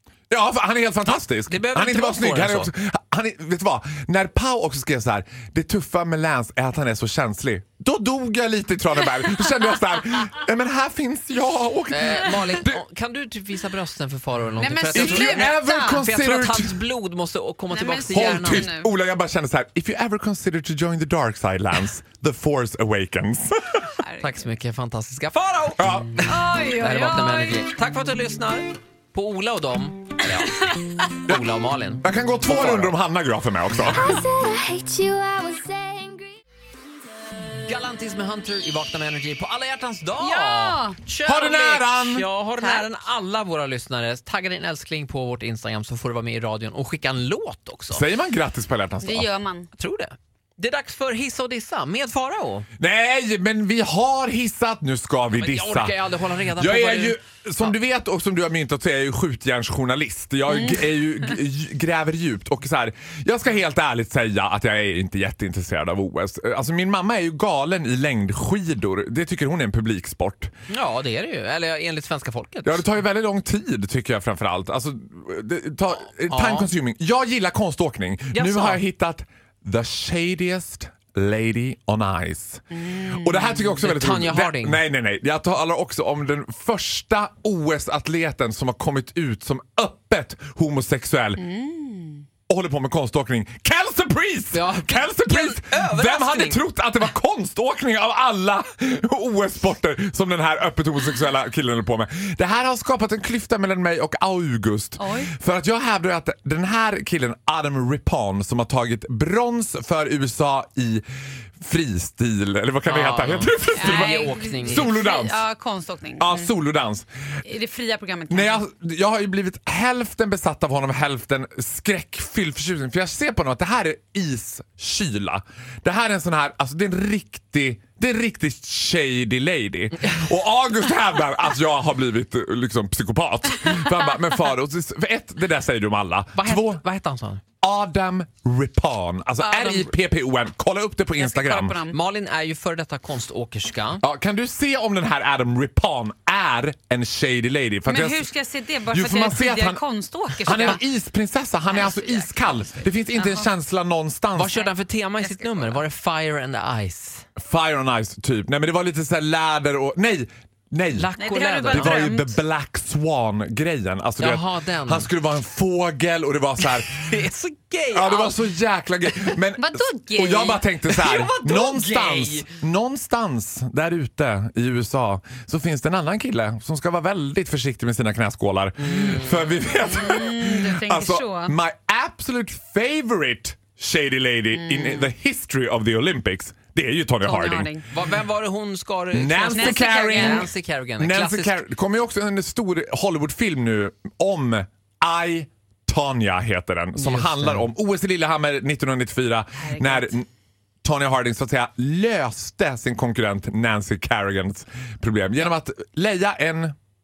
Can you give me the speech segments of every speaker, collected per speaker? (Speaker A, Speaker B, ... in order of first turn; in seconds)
Speaker A: 0.3-12.8, 14.9-16.8, 18.1-23.9, 25.8-26.2, 32.0-34.2, 41.3-42.3, 47.9-49.3, 52.8-56.0, 56.6-70.5, 72.6-91.5, 92.5-111.0, 111.6-115.4, 116.2-117.1, 118.3-136.8, 137.6-141.9, 144.0-149.9, 150.4-154.6, 157.4-161.1, 161.6-167.1, 167.9-187.7, 189.1-200.3, 200.8-206.7
Speaker B: 1.5-2.7, 11.9-18.7, 24.2-33.0, 37.6-48.0, 49.8-52.7, 55.3-57.8, 70.7-72.8, 76.3-76.7, 78.3-78.8, 83.8-84.8, 94.5-96.6, 112.8-115.0, 136.3-137.4, 141.9-144.0, 154.3-157.3, 160.9-162.0, 164.2-165.1, 166.6-168.4, 170.9-172.5, 178.8-179.6, 187.9-191.6, 197.0-197.7
Speaker C: 14.6-16.0, 17.7-18.9, 24.0-24.4, 26.2-27.6, 40.2-41.0, 42.6-42.9, 49.0-49.7, 82.7-83.6, 91.4-92.2, 105.0-105.3, 113.7-116.5, 117.5-118.7, 139.4-139.9, 141.2-142.0, 147.9-150.8, 151.7-153.5, 155.2-155.8, 161.2-162.4, 169.6-170.7, 179.9-181.6, 184.5-185.1, 187.2-187.8, 189.5-190.5, 199.6-200.2
Speaker D: 33.9-36.4